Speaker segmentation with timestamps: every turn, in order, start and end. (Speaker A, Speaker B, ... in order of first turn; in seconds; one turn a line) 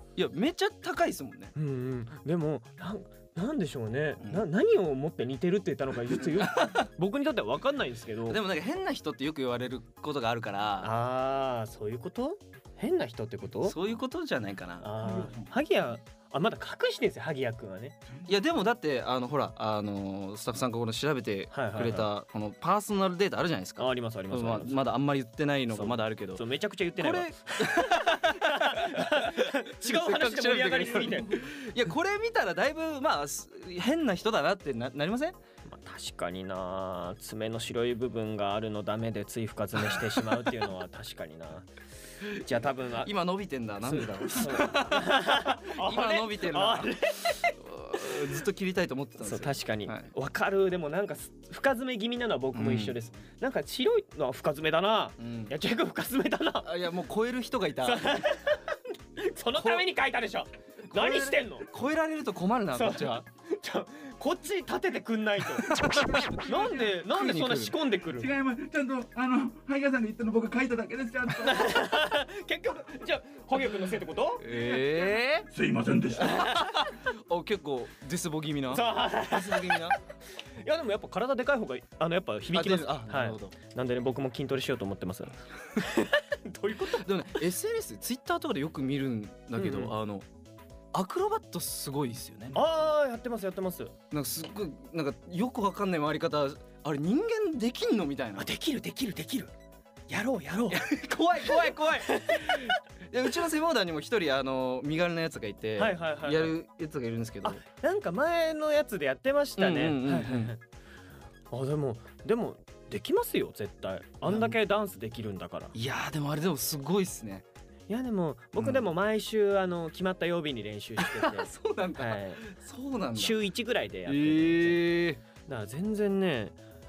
Speaker A: 0.2-1.5
Speaker B: 1.6-8.4
Speaker A: 4.2-4.5
Speaker A: 6.1-6.8
Speaker A: 8.3-10.9
Speaker B: 10.8-13.8
Speaker A: 13.6-14.9
Speaker B: 14.8-18.0
Speaker C: 15.0-15.5
Speaker A: 18.3-26.4
Speaker B: 21.5-22.1
Speaker B: 23.8-24.9
Speaker B: 25.7-31.4
Speaker A: 27.0-35.4
Speaker B: 35.7-41.7
Speaker A: 39.9-40.2
Speaker A: 42.2-42.5
Speaker B: 42.3-43.1
Speaker A: 43.0-50.1
Speaker B: 43.8-48.3
Speaker B: 49.2-56.7
Speaker A: 52.5-53.0
Speaker A: 55.2-55.5
Speaker A: 56.6-58.1
Speaker B: 57.8-61.7
Speaker A: 59.6-59.9
Speaker A: 60.9-63.2
Speaker B: 62.7-68.3
Speaker A: 65.6-67.8
Speaker C: 65.8-66.8
Speaker C: 68.2-71.7
Speaker B: 71.4-74.5
Speaker A: 74.4-75.5
Speaker C: 74.5-76.5
Speaker A: 76.2-80.0
Speaker B: 76.2-76.8
Speaker B: 78.7-80.0
Speaker B: 80.6-87.1
Speaker A: 82.5-83.5
Speaker A: 86.9-90.3
Speaker B: 89.6-89.9
Speaker A: 90.9-92.6
Speaker B: 92.5-93.9
Speaker A: 94.1-98.5
Speaker B: 98.4-99.5
Speaker B: 100.1-100.9
Speaker A: 100.7-107.6
Speaker B: 101.4-102.8
Speaker B: 105.8-106.5
Speaker B: 107.4-110.6
Speaker A: 109.6-110.5
Speaker B: 111.5-115.8
Speaker A: 114.2-114.6
Speaker A: 115.7-117.5
Speaker B: 117.9-122.4
Speaker A: 118.6-118.9
Speaker A: 121.0-123.4
Speaker B: 123.2-124.8
Speaker A: 124.1-125.2
Speaker B: 125.5-126.6